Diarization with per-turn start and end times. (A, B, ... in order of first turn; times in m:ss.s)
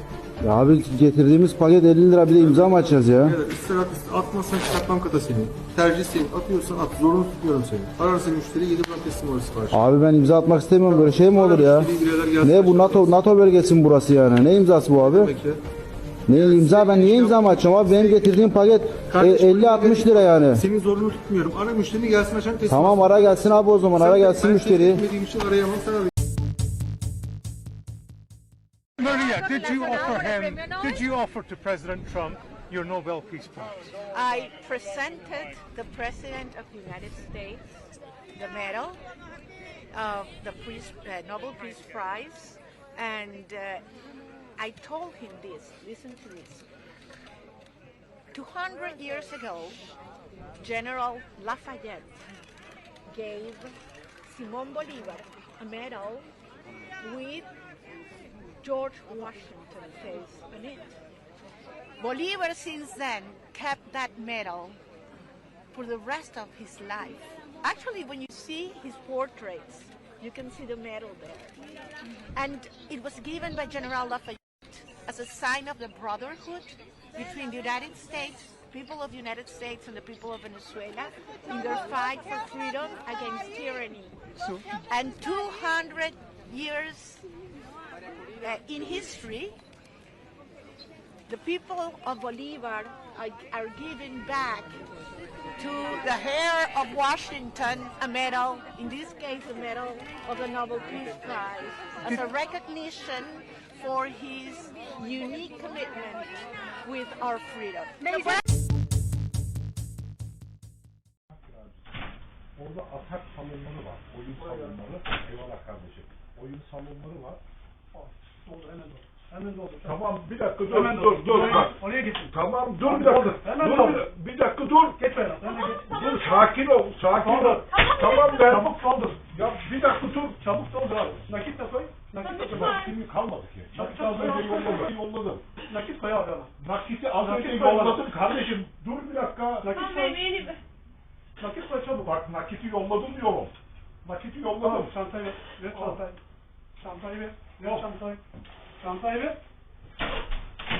0:00.4-0:03.4 A
0:03.3-0:09.8 B
0:09.7-0:15.4 A
0:11.4-0:13.2 B
0:15.2-0:15.6 B
0:16.3-0:20.6 A
0:16.6-0:18.1 B
0:19.2-0:20.0 B
0:20.6-0:22.9 B
0:22.7-0:25.1 A
0:24.5-0:26.1 B
0:29.0-0:33.9 C
0:34.1-0:39.0 D
0:39.9-0:43.8 D
0:44.6-0:46.6 D
0:48.3-0:49.8 D
0:50.6-0:52.2 D
0:53.1-0:56.3 D
0:57.0-0:57.5 D
0:58.6-1:01.0 D
1:02.0-1:04.8 D
1:05.7-1:11.6 D
1:12.3-1:24.2 D
1:24.8-1:27.2 D
1:28.4-1:29.6 D
1:31.3-1:34.8 D
1:35.6-1:48.4 D
1:51.4-1:51.8 E
1:52.6-1:57.4 E
1:57.9-2:00.1 F
1:59.8-2:05.0 E
2:00.6-2:04.1 F
2:04.8-2:05.9 F
2:05.8-2:10.6 E
2:07.1-2:09.3 F
2:10.4-2:12.6 F
2:12.3-2:15.4 E
2:13.7-2:14.9 F
2:15.7-2:16.5 F
2:16.6-2:19.8 E
2:17.2-2:18.1 F
2:19.6-2:20.4 F
2:21.4-2:22.2 F
2:22.0-2:25.0 E
2:24.6-2:26.2 F
2:25.7-2:26.0 E
2:26.8-2:28.2 F
2:28.8-2:29.4 F